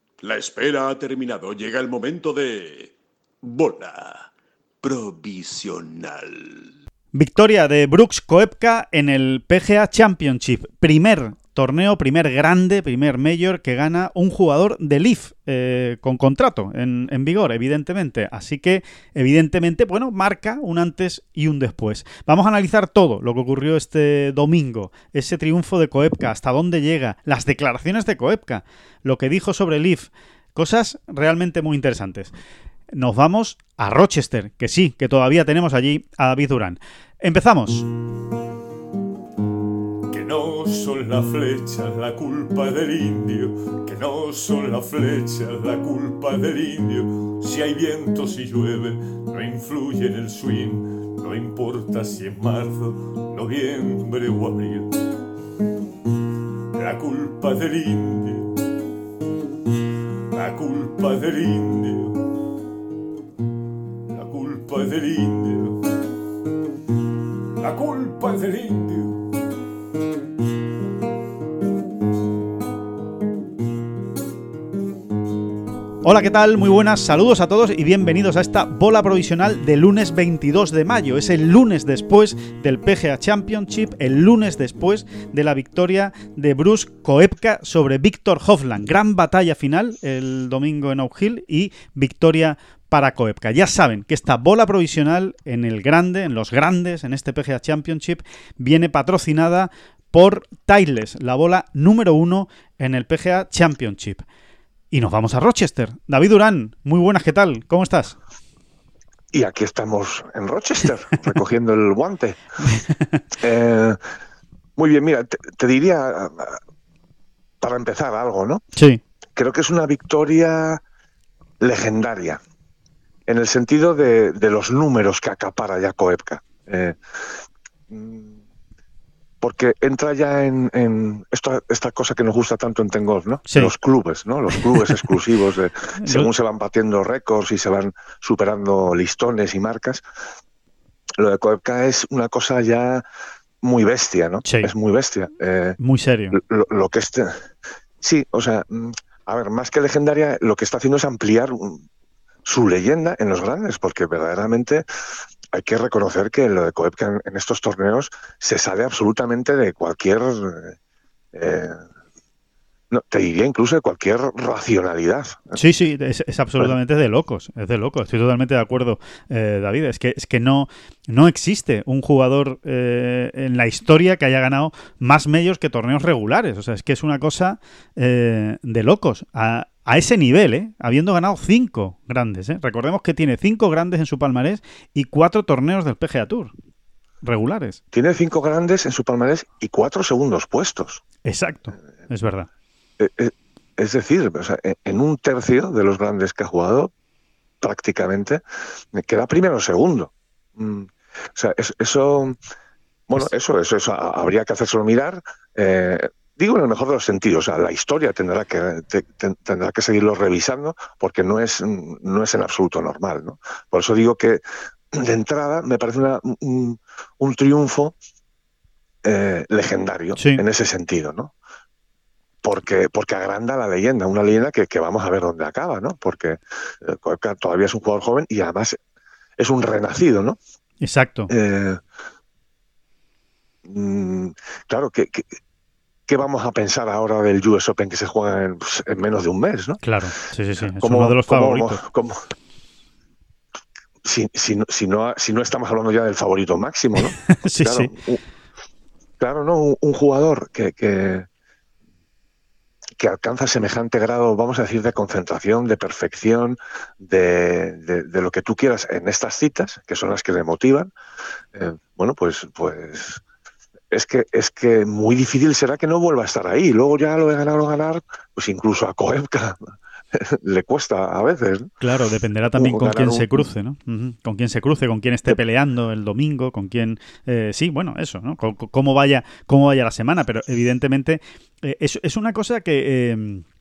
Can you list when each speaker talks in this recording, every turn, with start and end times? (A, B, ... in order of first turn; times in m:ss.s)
0:00.2-0:04.3 A
0:04.8-0:06.7 A
0:07.1-0:32.3 B
0:32.9-0:37.9 B
0:40.1-0:54.9 C
0:56.7-0:58.5 C
1:00.3-1:02.2 C
1:04.1-1:05.8 C
1:07.6-1:09.3 C
1:16.0-1:44.2 B
1:44.9-1:48.2 B
1:49.3-1:52.4 D
1:52.8-1:53.2 B
1:53.4-1:54.0 D
1:54.8-1:56.6 D
1:57.6-1:58.6 D
1:59.4-2:00.8 D
2:01.6-2:02.4 D
2:03.3-2:07.0 D
2:07.9-2:08.4 D
2:09.4-2:20.0 D
2:14.7-2:15.1 B
2:16.0-2:16.3 B
2:21.2-2:23.0 D
2:23.6-2:25.8 D
2:24.4-2:24.7 B
2:25.8-2:26.4 B
2:26.3-2:27.4 D
2:28.0-2:31.8 D
2:32.4-2:34.8 D
2:35.5-2:40.8 D
2:41.3-2:41.8 D
2:42.9-2:45.6 D
2:45.6-3:06.5 B
3:07.2-3:07.8 B
3:07.9-3:11.0 D
3:11.2-3:12.5 B
3:13.0-3:16.9 D
3:17.6-3:18.4 D
3:18.9-3:22.4 D
3:23.1-3:38.0 D
3:39.0-3:41.3 D
3:40.2-3:40.4 B
3:42.4-3:48.8 D
3:49.4-3:50.4 D
3:50.8-3:51.3 B
3:51.3-3:51.8 D
3:53.6-3:55.4 D
3:56.1-3:59.8 D
3:59.8-4:01.8 B
4:00.8-4:02.3 D
4:04.0-4:08.2 D
4:07.0-4:07.9 B
4:09.2-4:11.3 D
4:13.0-4:20.9 D
4:21.5-4:23.2 D
4:23.9-4:31.7 D
4:31.8-4:43.4 B
4:32.5-4:33.5 D